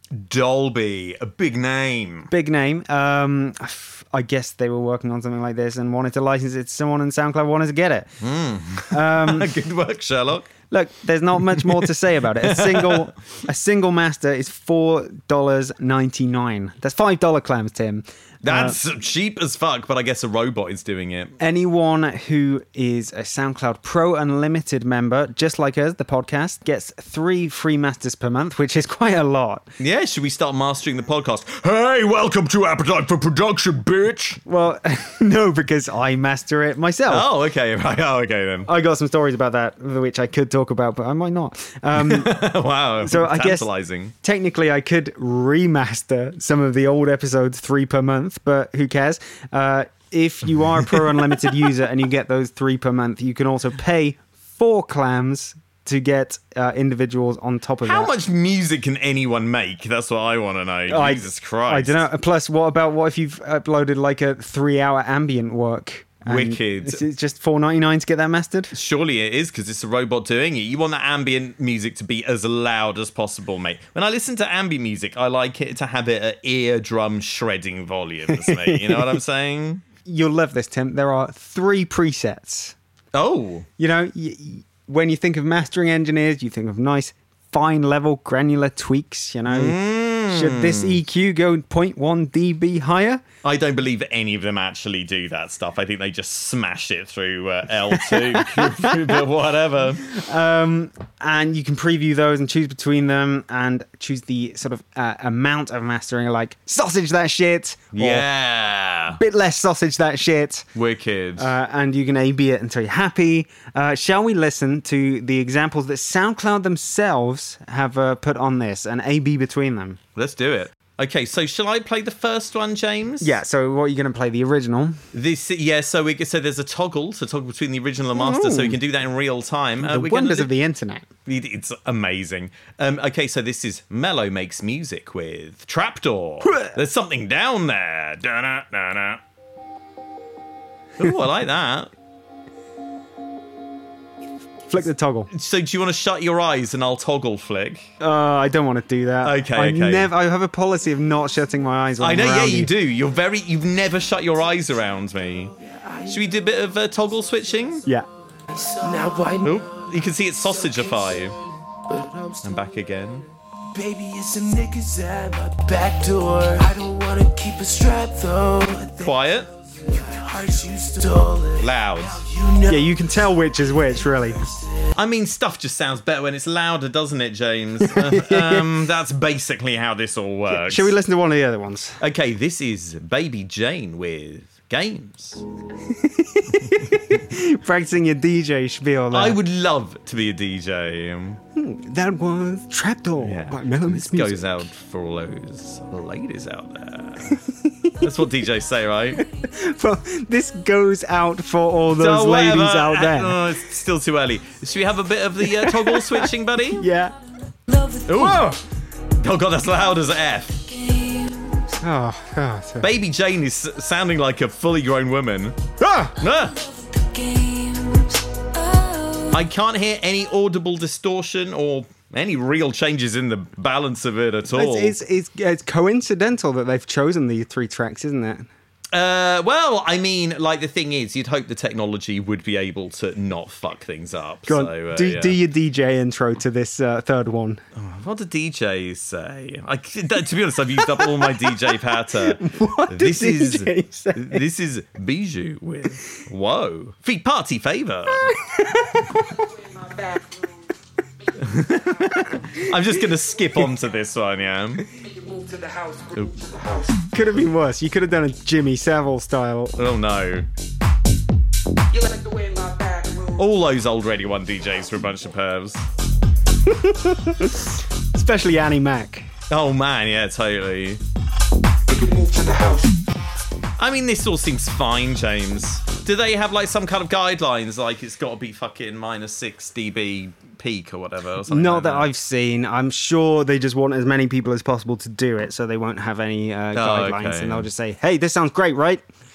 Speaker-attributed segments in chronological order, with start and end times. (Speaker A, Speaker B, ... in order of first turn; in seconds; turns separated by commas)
Speaker A: 0.1-2.3, Speaker B: 2.3-8.1, Speaker A: 8.2-10.5, Speaker B: 8.9-9.5, Speaker B: 10.7-18.8, Speaker A: 11.4-13.1, Speaker A: 18.4-21.3, Speaker B: 21.4-29.7, Speaker A: 29.8-34.4, Speaker B: 34.5-37.3, Speaker A: 37.1-38.7, Speaker B: 38.6-42.4, Speaker A: 41.9-44.1, Speaker B: 43.0-43.7, Speaker B: 44.2-58.1, Speaker A: 50.9-51.5, Speaker A: 57.8-62.0, Speaker B: 60.9-68.7, Speaker A: 66.2-67.0, Speaker A: 68.7-79.8, Speaker B: 78.3-79.2, Speaker B: 80.0-82.7, Speaker A: 83.1-83.7, Speaker B: 83.8-93.2, Speaker A: 89.5-91.0, Speaker A: 93.4-100.1, Speaker B: 97.9-99.2, Speaker B: 100.0-108.2, Speaker A: 108.0-109.2, Speaker B: 109.2-110.7, Speaker A: 110.7-111.5, Speaker B: 111.4-120.0, Speaker A: 120.2-123.4, Speaker B: 123.2-125.0, Speaker A: 125.1-130.5, Speaker B: 128.1-128.8, Speaker B: 129.8-131.1, Speaker A: 131.2-139.2, Speaker B: 136.4-136.8, Speaker A: 141.0-141.9, Speaker B: 144.7-145.3, Speaker A: 145.3-147.9, Speaker B: 148.0-152.7, Speaker A: 149.2-150.1, Speaker A: 152.0-155.5, Speaker C: 155.6-156.3, Speaker A: 156.1-157.8, Speaker C: 158.5-161.1, Speaker A: 159.4-161.4, Speaker C: 161.9-162.5, Speaker A: 162.4-163.3, Speaker C: 163.7-173.1, Speaker A: 169.0-169.5, Speaker A: 171.6-172.2, Speaker B: 172.7-174.4, Speaker C: 174.4-174.9, Speaker A: 174.9-180.9, Speaker B: 177.8-178.7, Speaker B: 180.5-182.0, Speaker A: 182.0-185.4, Speaker B: 185.8-189.4, Speaker A: 189.1-191.4, Speaker B: 191.5-194.4, Speaker A: 193.2-197.4, Speaker B: 197.3-198.1, Speaker A: 198.0-199.2, Speaker B: 199.2-203.5, Speaker A: 201.9-206.8, Speaker B: 205.4-207.1, Speaker D: 207.7-208.0, Speaker A: 208.1-208.5, Speaker B: 208.1-208.6, Speaker A: 209.2-210.7, Speaker D: 210.8-211.7, Speaker B: 211.8-212.9, Speaker A: 212.8-215.6, Speaker B: 215.8-216.2, Speaker A: 216.2-216.6, Speaker D: 216.7-219.3, Speaker A: 219.3-224.9, Speaker B: 224.5-228.5, Speaker A: 228.9-235.4, Speaker B: 234.5-237.6, Speaker A: 237.7-248.3, Speaker B: 240.8-244.4, Speaker B: 248.2-249.4, Speaker A: 251.4-254.9, Speaker B: 252.3-252.7, Speaker C: 255.1-256.8, Speaker B: 257.0-259.7, Speaker A: 259.8-260.5, Speaker C: 262.1-263.4, Speaker A: 263.3-265.8, Speaker B: 266.6-269.3, Speaker A: 269.5-271.0, Speaker C: 271.9-272.9, Speaker A: 273.8-282.1, Speaker B: 281.5-289.0, Speaker A: 286.7-287.7